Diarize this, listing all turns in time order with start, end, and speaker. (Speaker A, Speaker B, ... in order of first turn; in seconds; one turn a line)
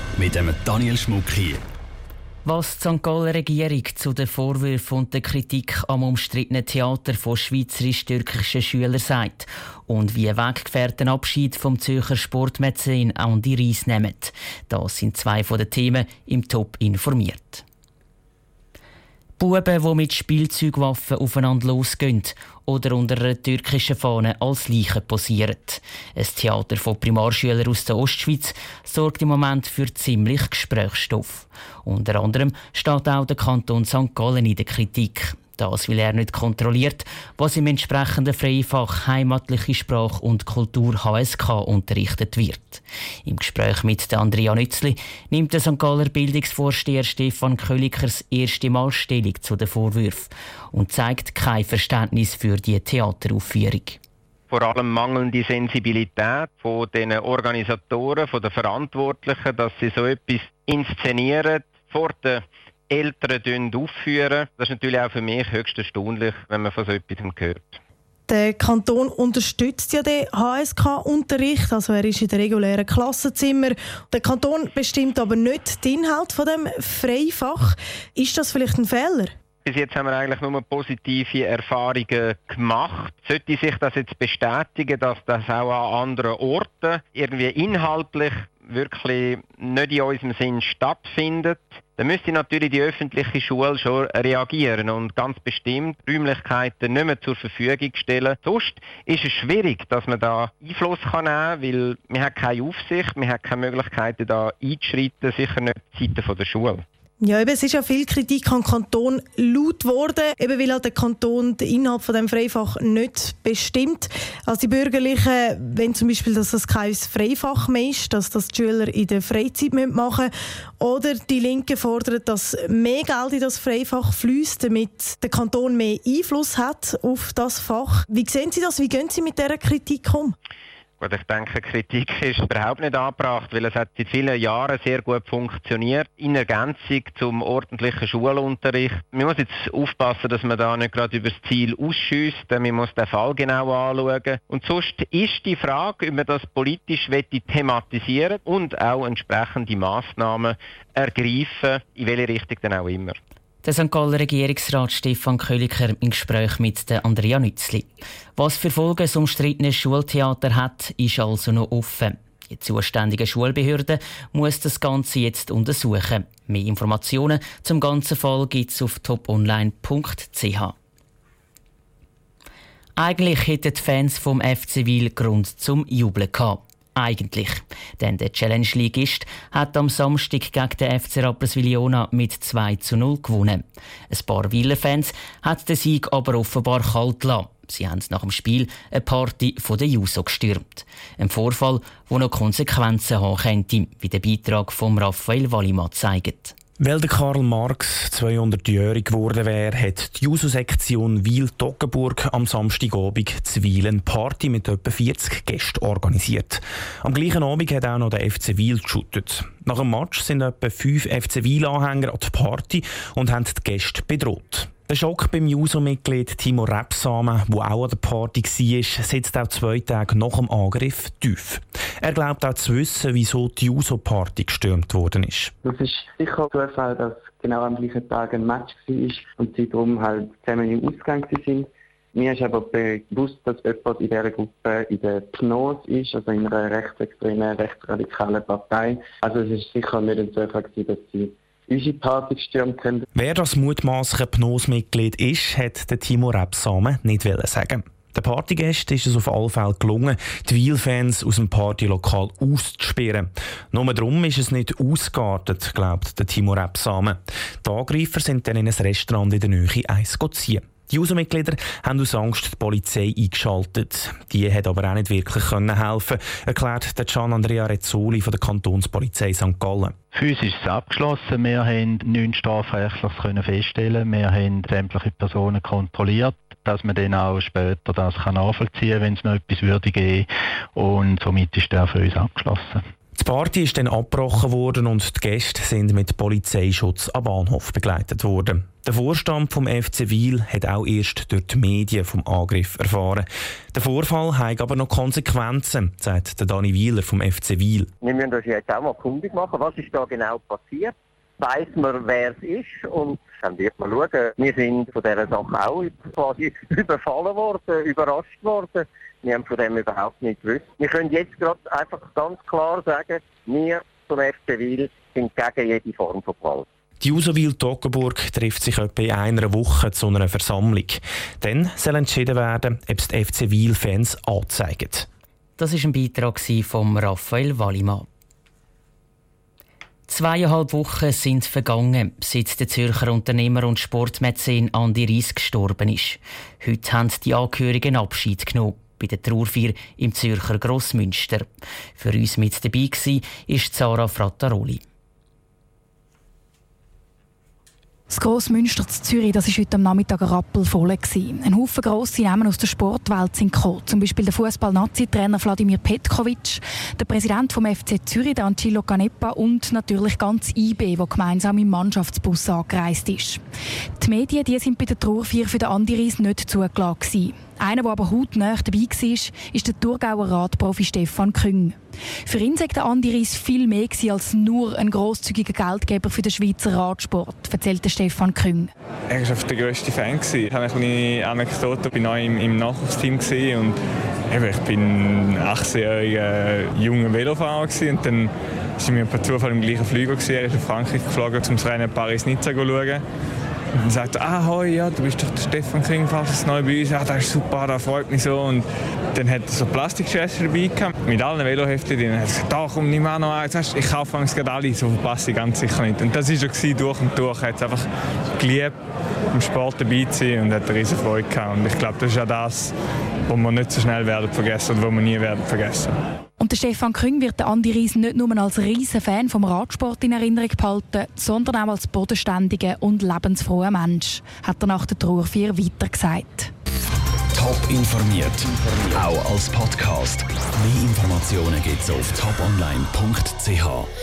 Speaker A: 0.2-1.6
Speaker B: 2.4-17.6
Speaker B: 19.4-54.0
Speaker C: 54.5-67.8
Speaker D: 68.3-79.3
Speaker C: 79.6-106.8
Speaker D: 107.2-130.3
Speaker C: 131.0-153.2
Speaker B: 153.6-170.7
Speaker B: 173.0-196.5
Speaker E: 196.8-225.5
Speaker F: 225.6-243.0
Speaker E: 243.1-269.9
Speaker G: 270.1-282.8
Speaker E: 283.1-297.9
Speaker H: 298.0-316.6
Speaker E: 317.0-325.1
Speaker B: 325.6-328.1
Speaker B: 330.1-344.8
Speaker I: 348.1-363.4
Speaker I: 364.0-378.7
Speaker J: 379.1-383.8
Speaker J: 384.3-393.0
Speaker J: 393.8-407.9
Speaker J: 408.4-408.7
Speaker J: 409.3-412.7
Speaker J: 413.3-415.9
Speaker I: 416.4-426.5
Speaker A: 427.4-433.9